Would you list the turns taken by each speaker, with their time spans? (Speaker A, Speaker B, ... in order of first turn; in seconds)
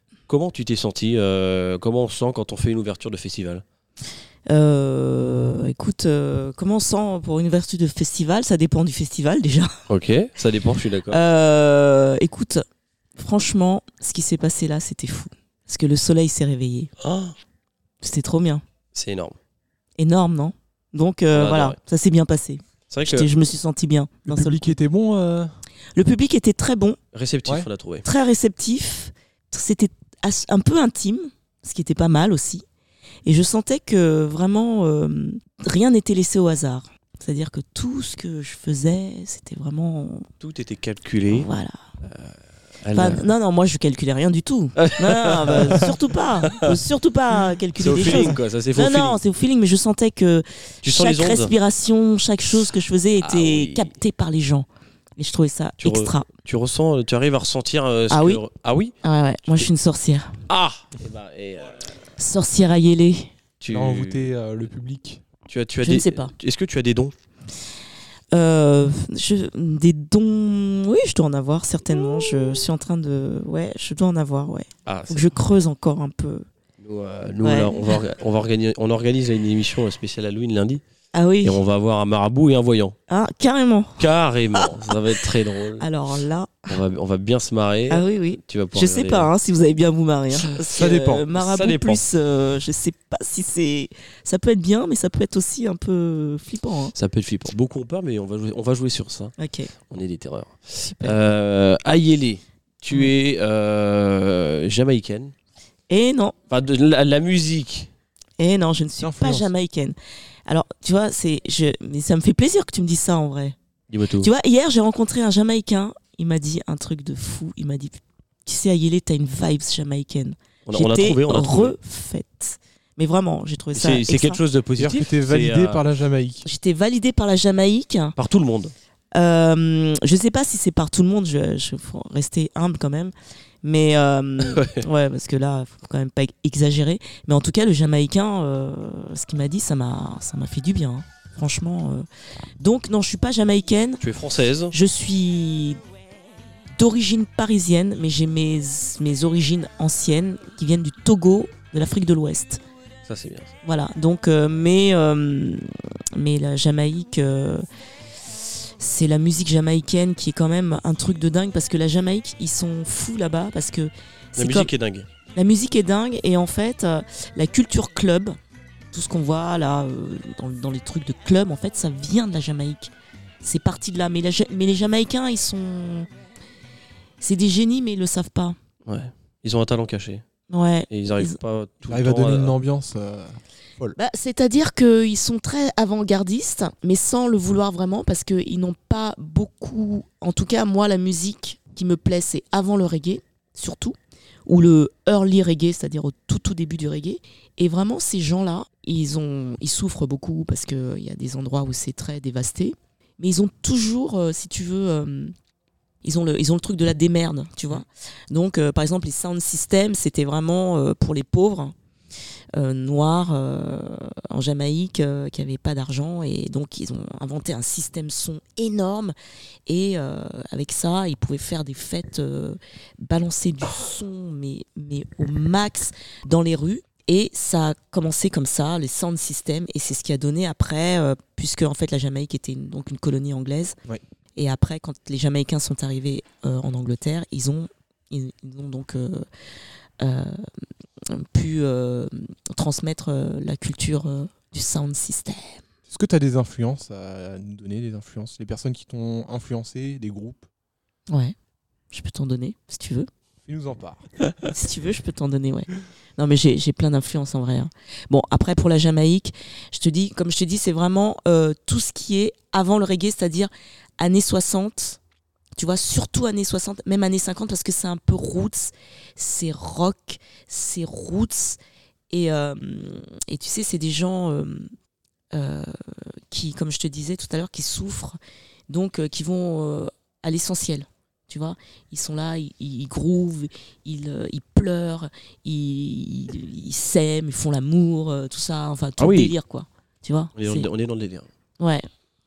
Speaker A: 0.3-3.6, 9.9-11.2, 17.0-17.3, 18.9-19.4, 21.3-21.8, 22.9-23.3, 27.1-28.0, 40.4-41.5, 42.0-43.3, 44.8-45.9, 47.8-49.2, 50.8-51.5, 53.2-53.9, 55.8-58.9, 60.5-62.0, 63.6-64.3, 65.5-67.1, 74.8-75.3, 76.8-80.8, 81.4-82.9, 84.0-85.8, 86.7-89.3, 91.3-92.0, 96.9-99.3, 99.9-105.3, 106.5-107.9, 113.9-114.3, 120.7-121.8, 123.7-125.8, 128.2-128.7, 134.4-134.8, 144.0-144.7, 153.1-153.5, 164.3-165.1, 178.8-180.2, 180.9-182.5, 289.0-289.3, 290.4-291.3
Speaker B: 4.5-9.7, 11.1-12.6, 13.2-16.9, 18.0-18.6, 20.0-24.7, 25.9-27.0, 28.0-32.6, 33.2-40.3, 41.3-41.8, 42.9-54.7, 55.2-56.3, 58.1-58.4, 59.0-60.4, 62.2-63.3, 65.8-66.3, 68.3-76.5, 77.4-78.0, 81.1-81.6, 83.1-85.0, 85.8-86.7, 87.9-96.9, 99.4-99.7, 100.8-101.2, 105.9-106.3, 108.4-113.5, 114.2-124.4, 126.4-128.1, 129.1-142.1, 142.6-144.0, 144.7-145.8, 146.8-152.6, 153.6-157.6, 158.8-164.7, 165.3-168.4, 168.9-172.9, 173.4-176.1, 177.2-178.6, 180.5-181.3, 183.9-205.3, 206.0-211.7, 212.6-219.1, 219.7-233.8, 234.3-239.2, 240.0-240.4, 241.1-245.6, 251.1-251.3, 251.9-253.1, 254.4-265.0, 265.6-271.6, 272.1-274.7, 275.3-290.7
Speaker C: 24.2-25.5, 63.7-65.2, 90.7-91.2, 109.0-109.5, 124.8-126.5, 181.9-183.9, 245.9-250.5, 253.4-254.1